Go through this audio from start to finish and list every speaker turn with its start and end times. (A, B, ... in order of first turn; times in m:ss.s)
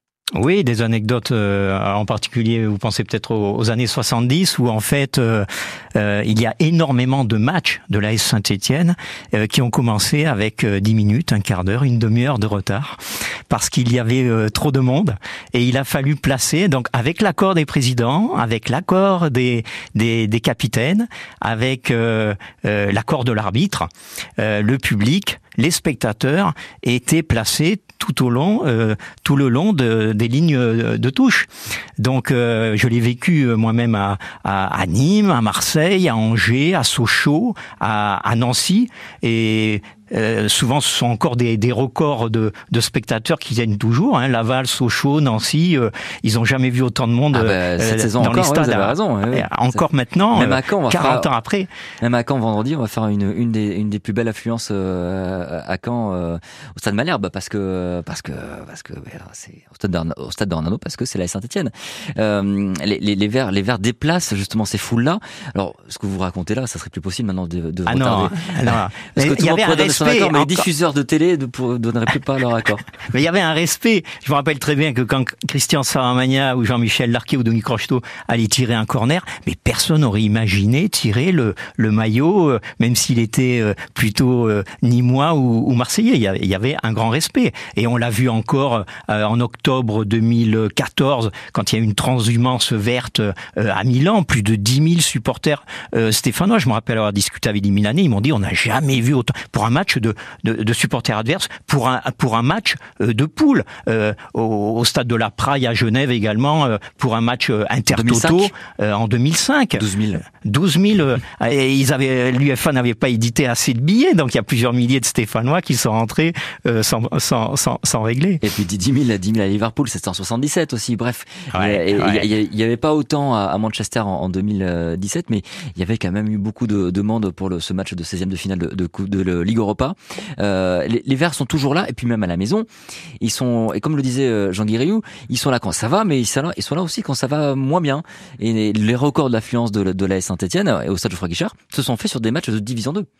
0:00.3-0:51.7 A
0:47.3-0:49.5 B
0:50.3-0:51.3 B
0:52.0-1:12.8 B
1:07.9-1:10.6 A
1:13.1-1:49.8 A
1:47.9-1:48.5 B
1:49.7-1:50.2 B
1:50.4-1:58.4 A
1:58.4-2:12.7 B
2:01.5-2:02.2 A
2:13.2-2:23.1 B